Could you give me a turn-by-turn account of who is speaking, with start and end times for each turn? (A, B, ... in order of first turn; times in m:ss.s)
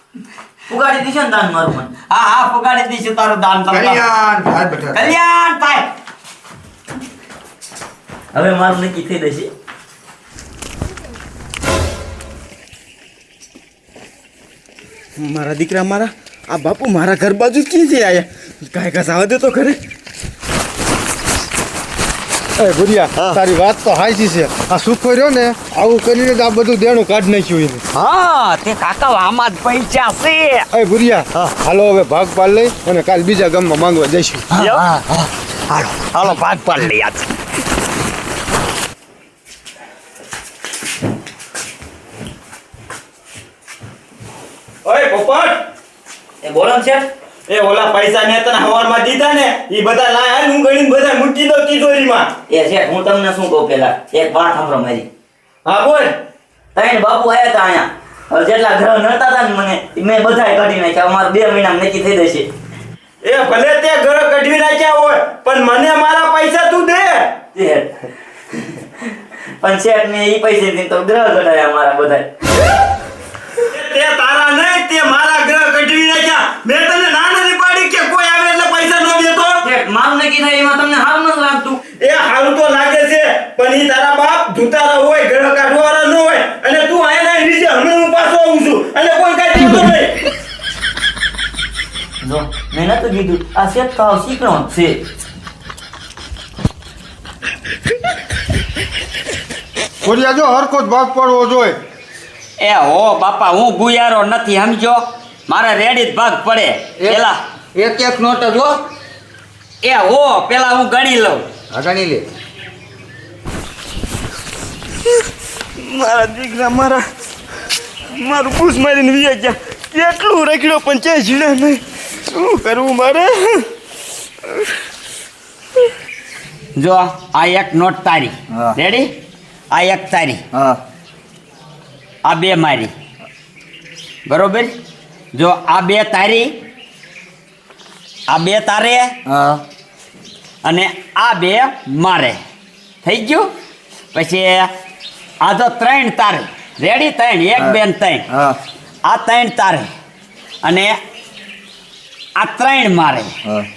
0:00.7-0:01.9 A
0:02.1-0:04.1 B
0:03.7-0:05.1 C
0:04.9-0:05.9 B
0:08.3-0:09.5 A
0:15.2-0:19.8 D
0:22.6-0:27.8 E
0:27.9-0:30.7 B
0:30.7-0:34.5 E
0:34.6-0:35.2 C
0:34.6-0:34.9 B
0:35.7-0:37.3 B
0:44.8-0:45.6 D
0:46.4-0:47.1 A
0:47.5-0:52.3 D
0:52.5-0:55.1 A
0:55.7-0:56.1 D
0:56.7-1:02.5 A
1:03.2-1:07.4 D
1:07.5-1:07.9 A
1:09.6-1:12.3 A
1:13.6-1:19.6 D
1:19.6-1:21.8 A
1:22.0-1:30.2 D
1:32.2-1:35.0 A
1:40.0-1:41.8 E
1:42.6-1:47.4 B
1:47.0-1:48.8 C
1:49.8-1:51.4 B
1:51.7-1:52.2 C
1:55.8-1:57.0 D
1:58.2-2:03.6 D
2:06.8-2:09.1 B
2:08.5-2:08.8 C
2:09.7-2:10.4 B
2:10.5-2:10.8 C
2:12.2-2:12.9 B
2:14.3-2:14.7 B
2:15.3-2:16.6 B
2:18.3-2:19.2 B
2:19.2-2:19.6 C
2:20.6-2:22.4 B
2:23.0-2:23.5 B
2:24.1-2:24.7 B
2:25.4-2:28.2 B
2:28.3-2:28.6 C
2:29.0-2:29.9 B
2:30.6-2:31.0 B
2:32.4-2:33.3 B